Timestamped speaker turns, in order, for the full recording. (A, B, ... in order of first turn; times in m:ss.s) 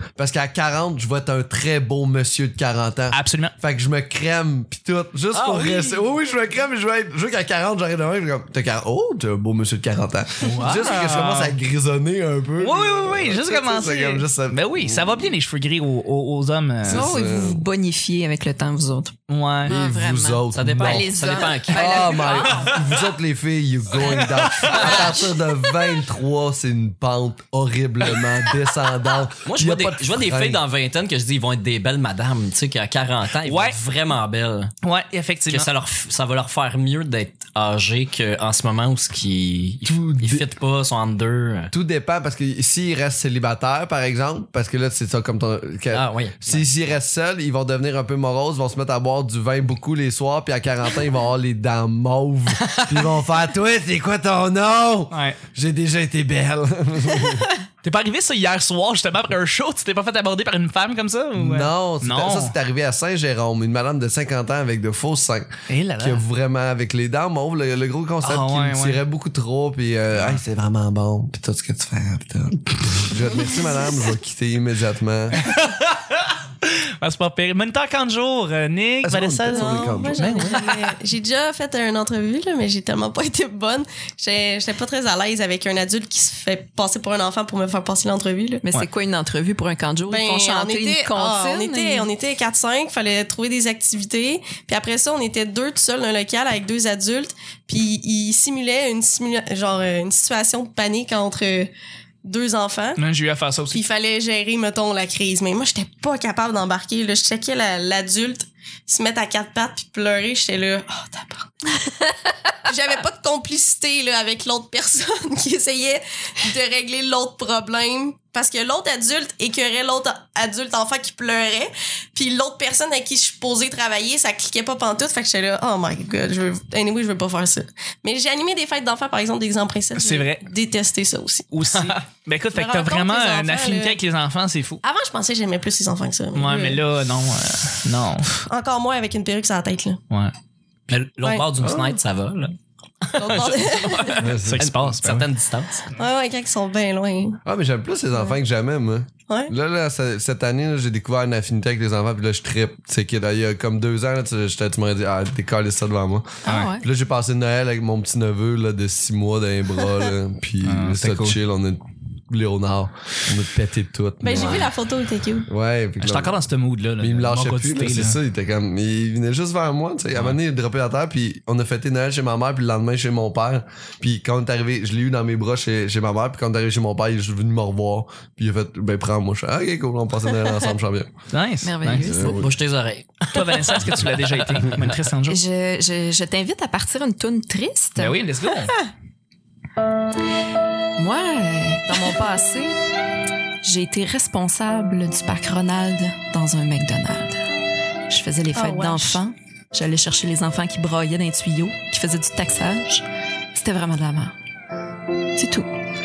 0:00.2-0:15.2 A
0:03.1-0:03.6 B
0:05.3-0:06.0 C
0:10.4-0:11.6 B
0:12.6-0:17.1 B
0:16.8-0:17.6 A
0:16.9-0:19.2 D
0:19.3-0:19.8 B
0:19.7-0:21.2 A
0:19.7-0:22.7 D
0:20.5-0:22.3 C
0:21.7-0:30.6 A
0:22.4-0:22.8 B
0:24.1-0:25.1 B
0:29.4-0:34.7 C
0:33.4-0:33.8 B
0:34.8-0:35.7 B
0:35.5-0:41.7 C
0:39.8-0:40.5 A
0:41.7-0:57.5 A
0:45.9-0:46.7 C
0:52.7-0:53.0 C
0:55.1-0:55.4 B
0:57.8-1:02.6 B
1:01.4-1:15.5 A
1:05.7-1:06.2 B
1:08.2-1:09.0 B
1:15.4-1:20.9 B
1:19.0-1:20.4 A
1:19.5-1:28.6 E
1:28.6-1:32.1 D
1:30.1-1:43.0 E
1:43.0-1:43.8 B
1:43.7-1:52.2 E
1:52.7-2:11.9 E
2:10.0-2:10.4 B
2:11.5-2:14.8 B
2:12.5-2:14.0 E
2:14.8-2:16.8 E
2:16.3-2:18.4 B
2:18.4-2:20.0 E
2:20.9-2:25.9 C
2:21.2-2:21.5 E
2:21.6-2:22.0 A
2:23.2-2:24.3 E
2:24.2-2:24.8 A
2:24.3-2:25.3 B
2:26.0-2:27.4 E
2:27.4-2:44.7 A
2:36.5-2:36.8 D
2:36.5-2:36.7 B
2:40.6-2:41.4 B
2:44.2-2:45.5 E
2:44.4-2:44.7 B
2:45.5-2:46.4 A
2:46.0-2:48.2 B
2:47.0-3:01.1 A
3:01.3-3:02.1 B
3:01.6-3:02.4 D
3:02.0-3:02.5 A
3:02.3-3:04.8 C
3:03.3-3:05.4 B
3:05.3-3:08.2 D
3:08.0-3:08.8 B
3:11.0-3:12.8 D
3:13.6-3:17.4 D
3:18.1-3:24.3 D
3:18.6-3:19.2 E
3:25.4-3:25.7 D